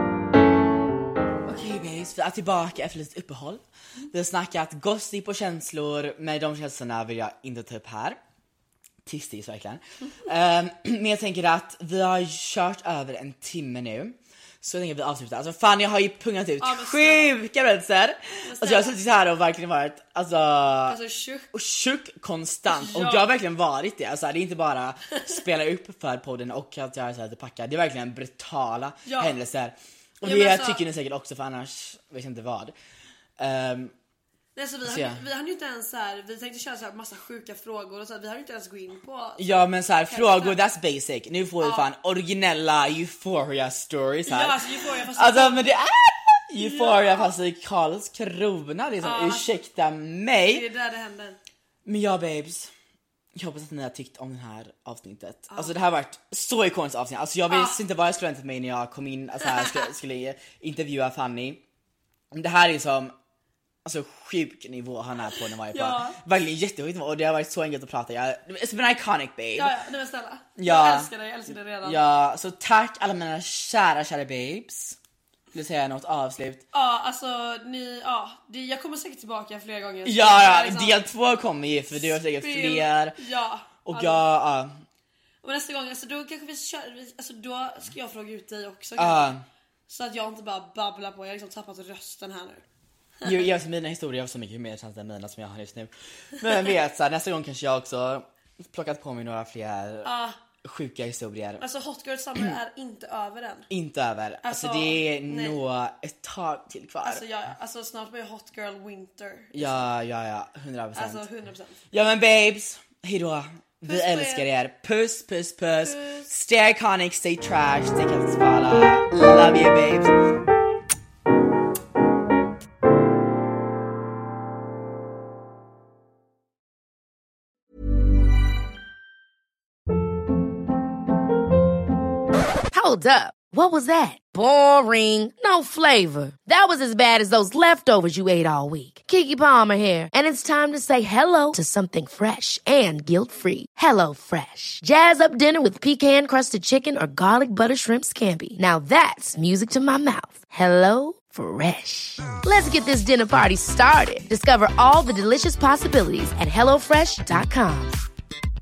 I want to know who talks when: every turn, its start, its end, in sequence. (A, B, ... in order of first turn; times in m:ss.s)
0:01.5-0:08.2 A
0:09.0-0:21.0 A
0:16.6-0:17.4 B
0:18.4-0:19.0 B
0:20.9-0:21.5 B
0:21.5-0:32.7 A
0:22.7-0:23.3 B
0:29.0-0:29.4 B
0:30.2-0:30.8 B
0:33.4-0:33.9 A
0:34.6-0:40.6 B
0:34.8-0:35.2 A
0:39.4-0:50.7 A
0:44.3-0:45.8 B
0:46.6-0:47.3 B
0:49.0-0:49.5 B
0:50.4-0:51.4 B
0:51.8-0:52.7 A
0:53.4-1:01.6 A
0:57.5-0:57.8 B
0:59.5-0:59.8 B
1:02.3-1:03.1 A
1:03.8-1:09.7 A
1:05.7-1:06.2 B
1:09.6-1:12.0 B
1:10.6-1:11.1 A
1:11.8-1:15.0 A
1:15.5-1:16.6 A
1:16.7-1:21.0 B
1:20.0-1:23.2 A
1:21.9-1:24.2 B
1:23.8-1:24.8 A
1:25.4-1:29.4 B
1:29.0-1:29.4 A
1:29.9-1:32.6 B
1:33.2-1:40.1 A
1:40.0-1:40.4 B
1:40.6-1:41.6 A
1:41.6-1:43.7 B
1:43.7-1:47.2 A
1:44.4-1:45.6 B
1:47.0-1:49.9 B
1:49.5-1:51.3 A
1:51.0-1:51.8 B
1:51.9-2:00.1 A
1:53.8-1:54.5 B
1:55.8-1:56.3 B
2:12.7-2:38.0 C